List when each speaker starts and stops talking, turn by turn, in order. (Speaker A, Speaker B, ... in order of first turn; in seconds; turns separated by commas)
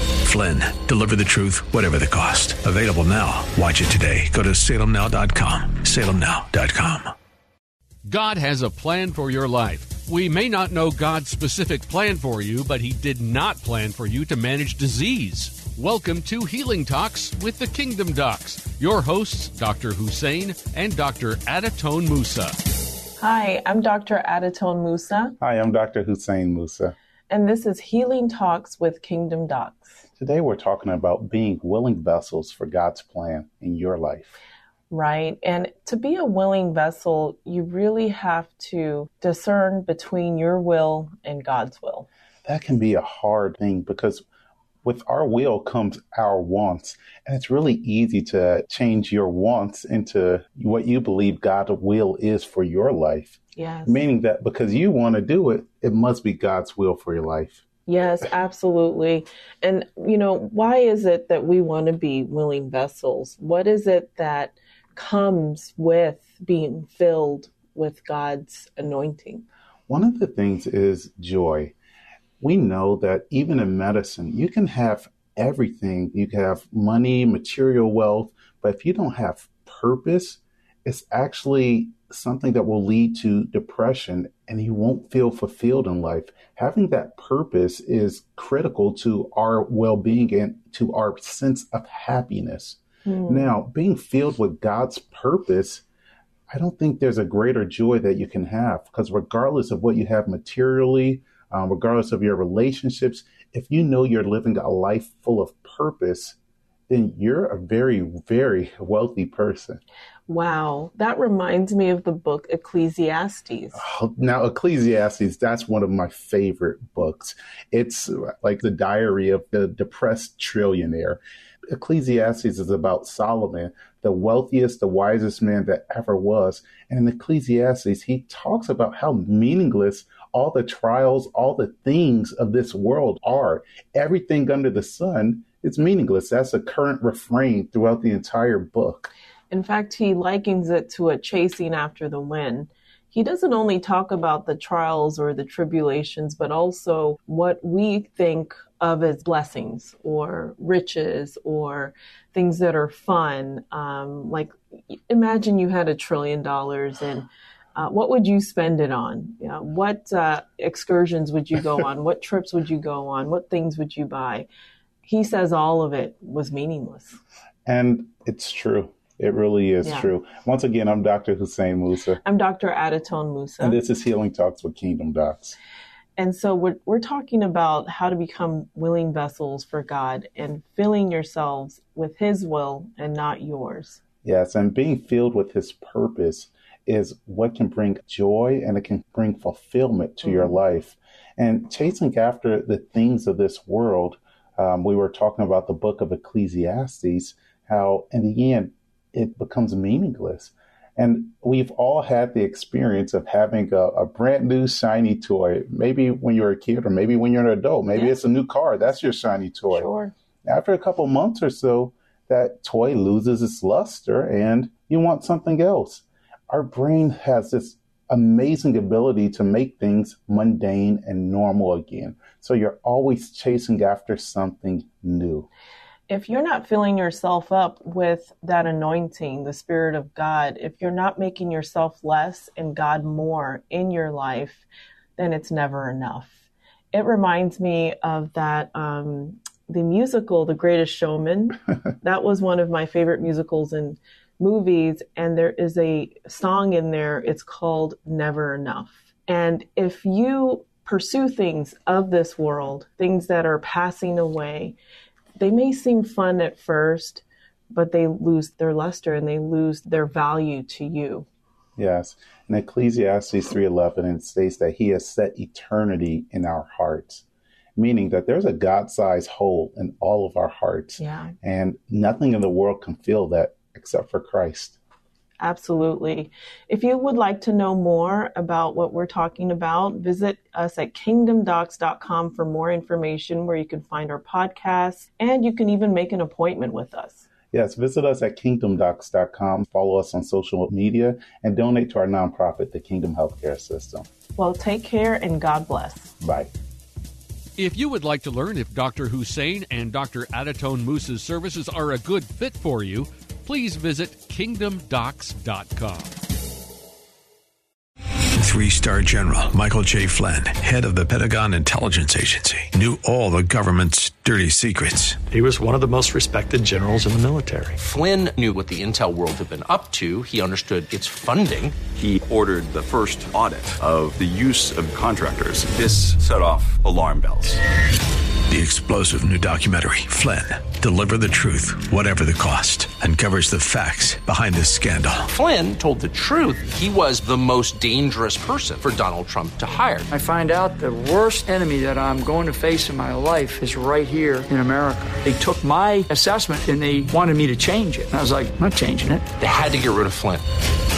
Speaker A: 0.2-7.1, Speaker B: 8.1-22.6, Speaker C: 23.2-25.3, Speaker D: 25.4-26.9, Speaker C: 27.3-30.0, Speaker D: 30.2-34.4, Speaker C: 34.9-42.1, Speaker D: 42.5-44.2, Speaker D: 44.8-57.6, Speaker C: 53.5-54.0, Speaker C: 57.9-69.4, Speaker D: 69.9-71.7, Speaker D: 72.4-95.8, Speaker C: 93.0-93.5, Speaker D: 96.5-106.4, Speaker D: 106.9-109.8, Speaker C: 110.3-113.8, Speaker D: 113.7-139.1, Speaker C: 139.5-164.5, Speaker C: 165.0-167.2, Speaker D: 167.7-172.2, Speaker C: 169.8-170.1, Speaker C: 172.2-173.8, Speaker D: 173.6-175.6, Speaker C: 176.2-184.0, Speaker D: 184.2-209.9, Speaker C: 190.2-190.6, Speaker C: 209.7-210.1, Speaker D: 210.4-225.5, Speaker C: 226.1-234.6, Speaker C: 235.2-254.8, Speaker C: 255.4-261.3, Speaker D: 261.8-267.2, Speaker D: 267.8-274.8, Speaker C: 271.0-271.3, Speaker C: 275.4-287.3, Speaker D: 287.5-294.1, Speaker C: 294.4-296.1, Speaker D: 296.2-296.5, Speaker B: 297.6-306.1, Speaker A: 308.4-315.2, Speaker E: 315.3-317.8, Speaker F: 317.8-321.8, Speaker G: 321.9-327.6, Speaker A: 328.5-335.3, Speaker F: 335.3-340.1, Speaker H: 340.1-349.2, Speaker F: 349.4-350.4